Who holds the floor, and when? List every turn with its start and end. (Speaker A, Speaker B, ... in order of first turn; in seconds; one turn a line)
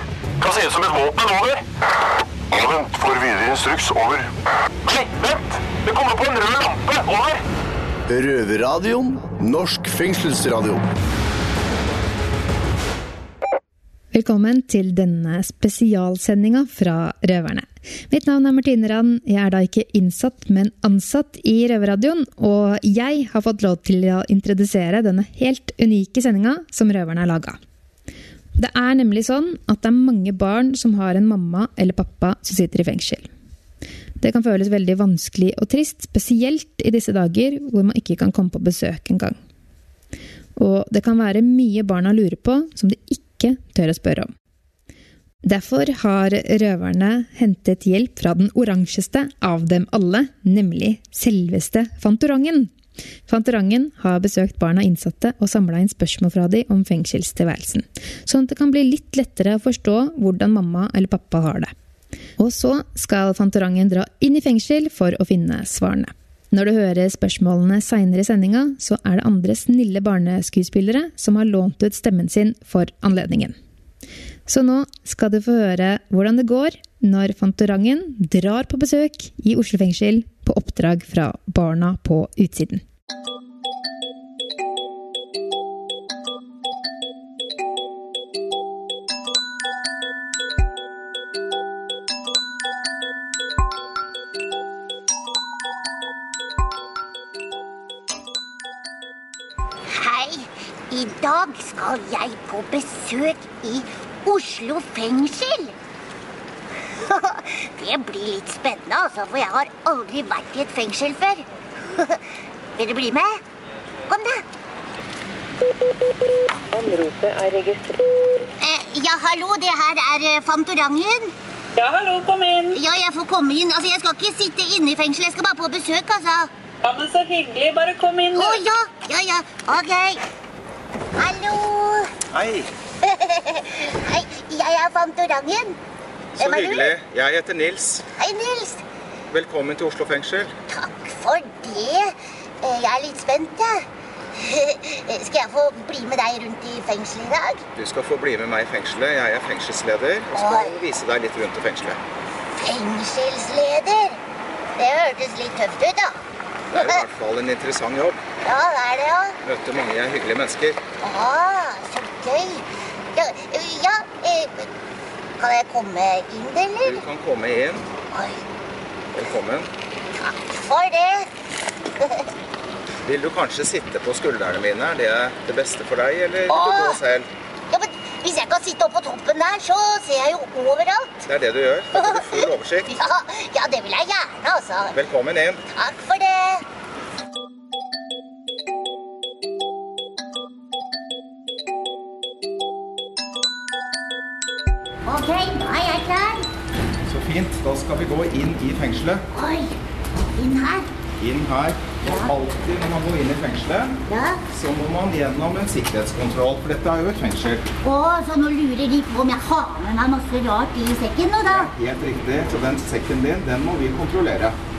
Speaker A: 0.4-1.6
Speaker A: 2.5-4.3
Speaker A: 4.8-7.4
Speaker B: 8.1-10.8
Speaker C: 14.1-27.6
Speaker C: 28.6-33.3
Speaker C: 34.2-39.4
Speaker C: 40.6-44.3
Speaker C: 45.4-52.7
Speaker C: 53.3-61.7
Speaker C: 62.4-73.5
Speaker C: 74.5-82.8
Speaker D: 99.9-105.8
Speaker D: 106.9-112.2
Speaker D: 112.8-113.4
Speaker D: 114.1-114.4
Speaker E: 116.7-118.2
Speaker D: 118.6-121.3
Speaker E: 121.8-122.8
Speaker D: 122.7-126.5
Speaker E: 126.8-128.6
Speaker D: 128.3-130.2
Speaker D: 131.2-132.1
Speaker F: 132.3-132.7
Speaker D: 133.0-135.8
Speaker F: 136.4-138.1
Speaker D: 136.4-136.9
Speaker D: 138.2-138.8
Speaker F: 139.3-140.6
Speaker D: 140.7-147.6
Speaker F: 147.8-152.0
Speaker D: 150.3-150.8
Speaker D: 152.6-154.2
Speaker D: 154.8-156.2
Speaker F: 156.7-158.2
Speaker D: 156.7-157.0
Speaker D: 158.4-159.4
Speaker F: 159.4-160.8
Speaker D: 161.0-164.7
Speaker D: 165.4-167.0
Speaker F: 166.8-167.9
Speaker D: 168.1-168.4
Speaker F: 169.1-169.7
Speaker D: 170.2-171.3
Speaker D: 172.0-172.3
Speaker F: 173.1-177.3
Speaker D: 176.5-177.0
Speaker D: 177.7-181.3
Speaker F: 181.3-182.9
Speaker D: 182.0-184.9
Speaker F: 184.9-185.6
Speaker D: 185.7-186.6
Speaker D: 195.1-196.5
Speaker F: 197.1-199.2
Speaker D: 199.3-200.9
Speaker F: 201.2-207.7
Speaker D: 202.0-202.3
Speaker D: 204.1-204.4
Speaker D: 207.8-211.7
Speaker F: 211.5-214.6